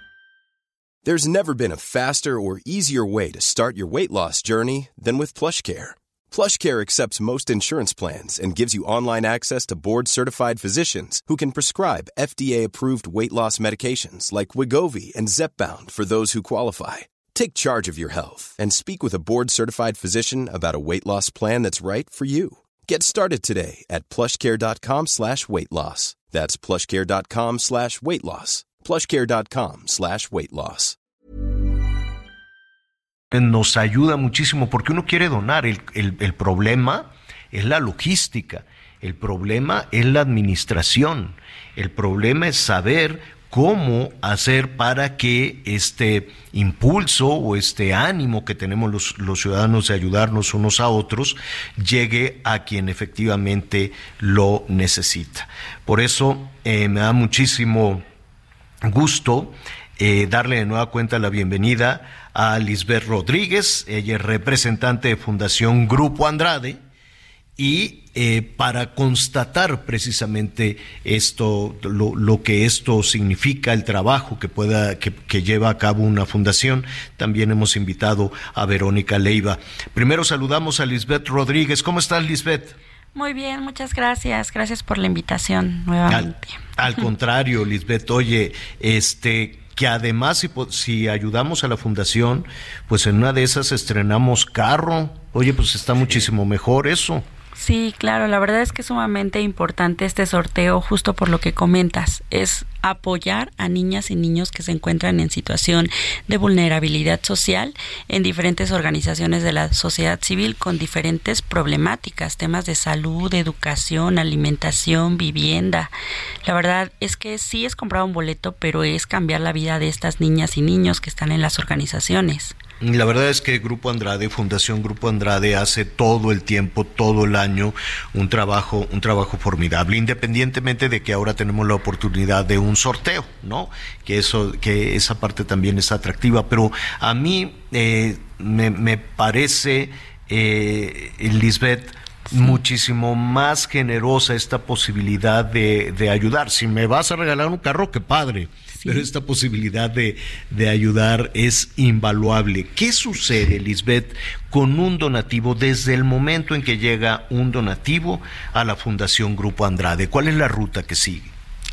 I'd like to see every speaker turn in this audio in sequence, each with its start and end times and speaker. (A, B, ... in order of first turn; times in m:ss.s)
0:01.0-0:31.0 A
0:33.3-0:58.0 B
0:58.8-1:06.8 B
1:07.6-1:22.8 B
1:23.1-1:27.0 C
1:26.1-1:37.2 B
1:37.6-1:55.9 C
1:56.4-2:02.5 C
2:02.8-2:41.3 B
2:28.8-2:29.1 C